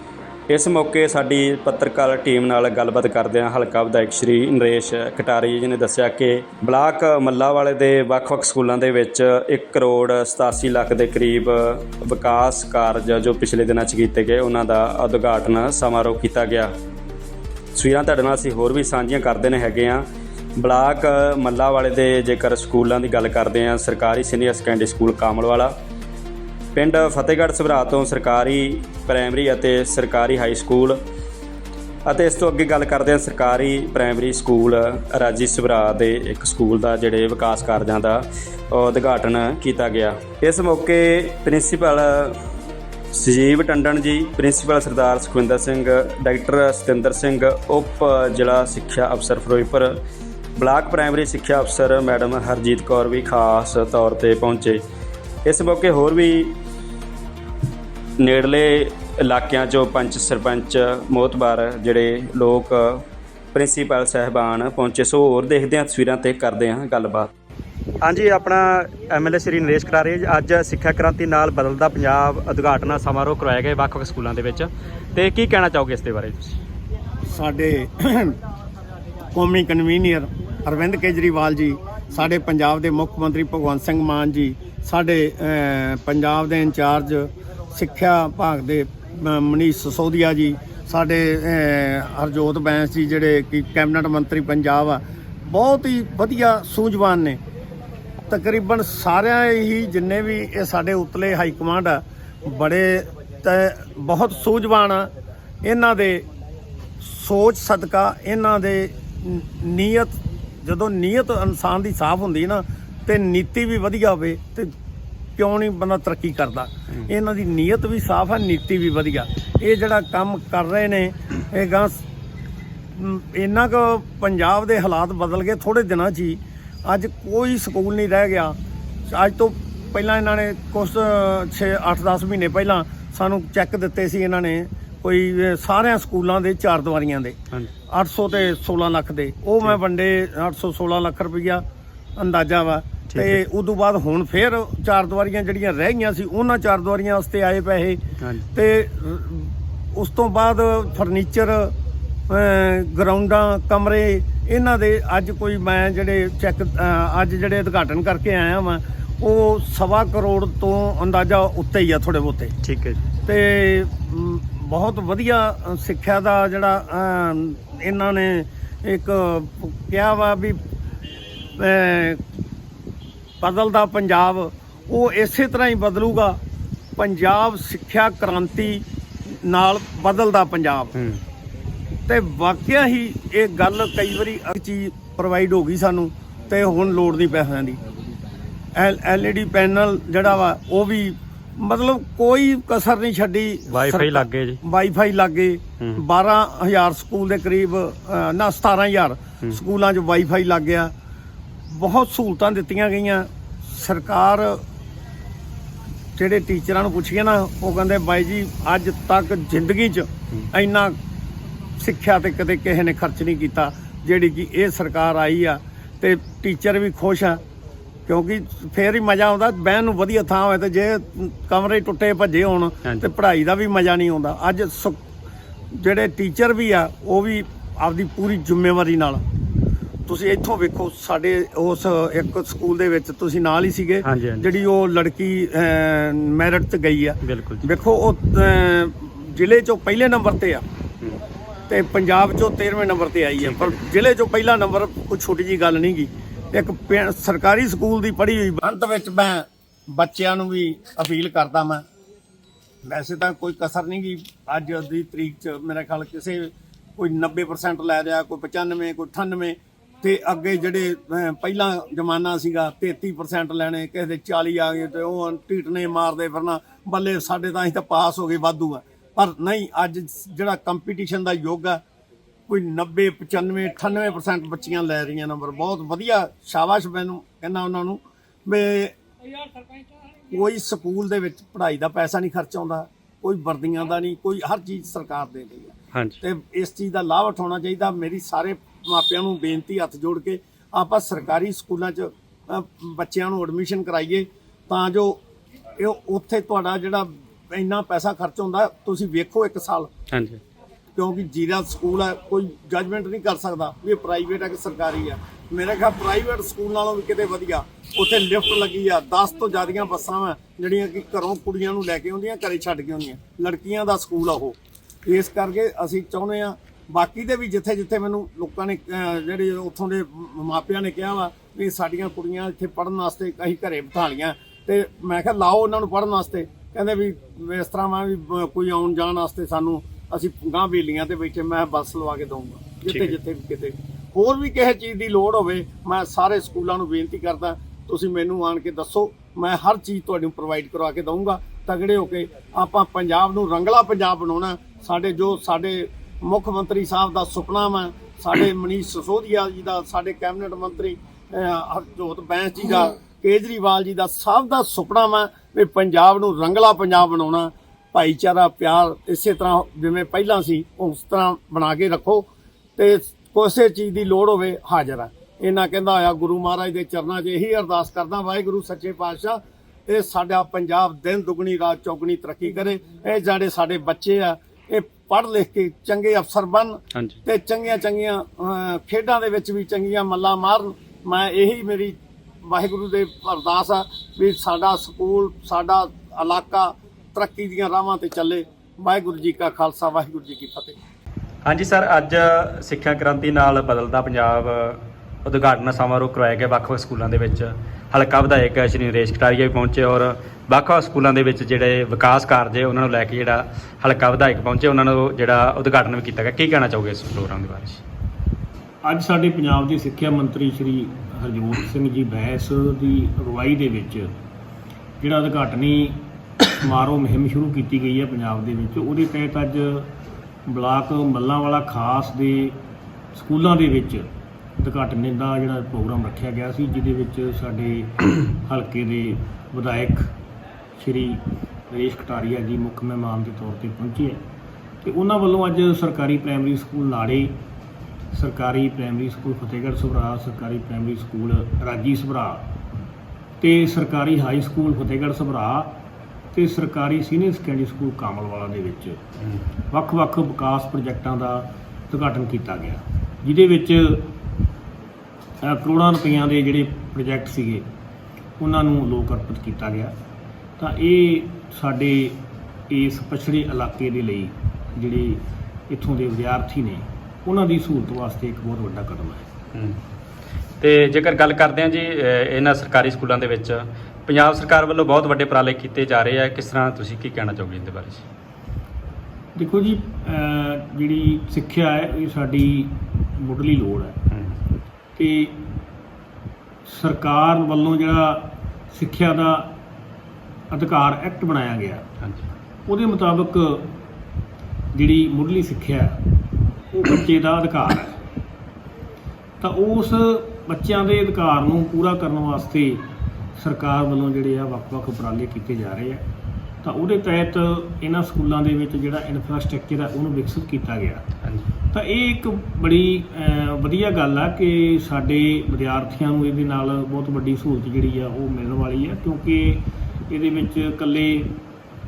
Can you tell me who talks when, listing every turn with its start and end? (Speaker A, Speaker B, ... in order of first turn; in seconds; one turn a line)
Speaker A: 0.5-16.7
Speaker A: 17.7-20.0
Speaker A: 20.6-25.7
Speaker A: 26.7-30.9
Speaker A: 32.1-38.2
Speaker A: 38.7-42.4
Speaker A: 43.1-49.9
Speaker A: 50.6-54.8
Speaker A: 55.5-56.5
Speaker A: 58.2-63.0
Speaker A: 63.5-67.3
Speaker A: 68.0-76.5
Speaker B: 77.3-78.4
Speaker B: 79.3-97.4
Speaker B: 98.3-105.1
Speaker B: 105.6-106.2
Speaker B: 107.0-114.7
Speaker B: 115.4-122.0
Speaker B: 122.9-128.6
Speaker B: 129.1-137.4
Speaker B: 137.9-141.6
Speaker B: 142.2-148.0
Speaker A: 143.1-143.4
Speaker B: 148.5-151.7
Speaker B: 152.3-162.5
Speaker A: 162.6-163.0
Speaker B: 163.2-170.6
Speaker B: 171.6-172.2
Speaker B: 173.4-176.4
Speaker B: 177.0-180.9
Speaker B: 182.1-187.8
Speaker B: 188.7-200.9
Speaker A: 193.7-194.6
Speaker B: 201.7-204.6
Speaker B: 206.2-210.9
Speaker B: 211.8-217.4
Speaker B: 218.1-224.9
Speaker B: 225.7-229.2
Speaker B: 230.1-240.6
Speaker A: 234.1-234.4
Speaker A: 237.2-237.7
Speaker B: 241.7-251.8
Speaker A: 243.4-243.8
Speaker B: 252.8-271.8
Speaker B: 272.5-278.9
Speaker B: 280.3-295.2
Speaker B: 295.8-299.9
Speaker A: 300.1-300.4
Speaker B: 300.9-390.7
Speaker A: 332.9-333.1
Speaker A: 391.4-407.8
Speaker C: 408.8-414.1
Speaker C: 415.0-419.9
Speaker C: 420.5-422.6
Speaker C: 423.1-424.1
Speaker C: 424.6-430.1
Speaker C: 430.8-434.2
Speaker C: 434.8-437.4
Speaker C: 438.1-442.4
Speaker C: 443.4-445.8
Speaker C: 446.3-449.0
Speaker C: 449.7-454.1
Speaker C: 455.4-457.7
Speaker C: 458.4-459.9
Speaker C: 460.6-469.2
Speaker A: 470.6-478.0
Speaker C: 479.4-484.0
Speaker A: 484.1-484.4
Speaker C: 484.9-485.4
Speaker C: 486.6-489.6
Speaker C: 490.5-491.9
Speaker C: 492.7-493.8
Speaker C: 494.7-496.0
Speaker C: 496.7-498.0
Speaker C: 499.4-506.0
Speaker C: 506.6-511.0
Speaker C: 511.7-521.4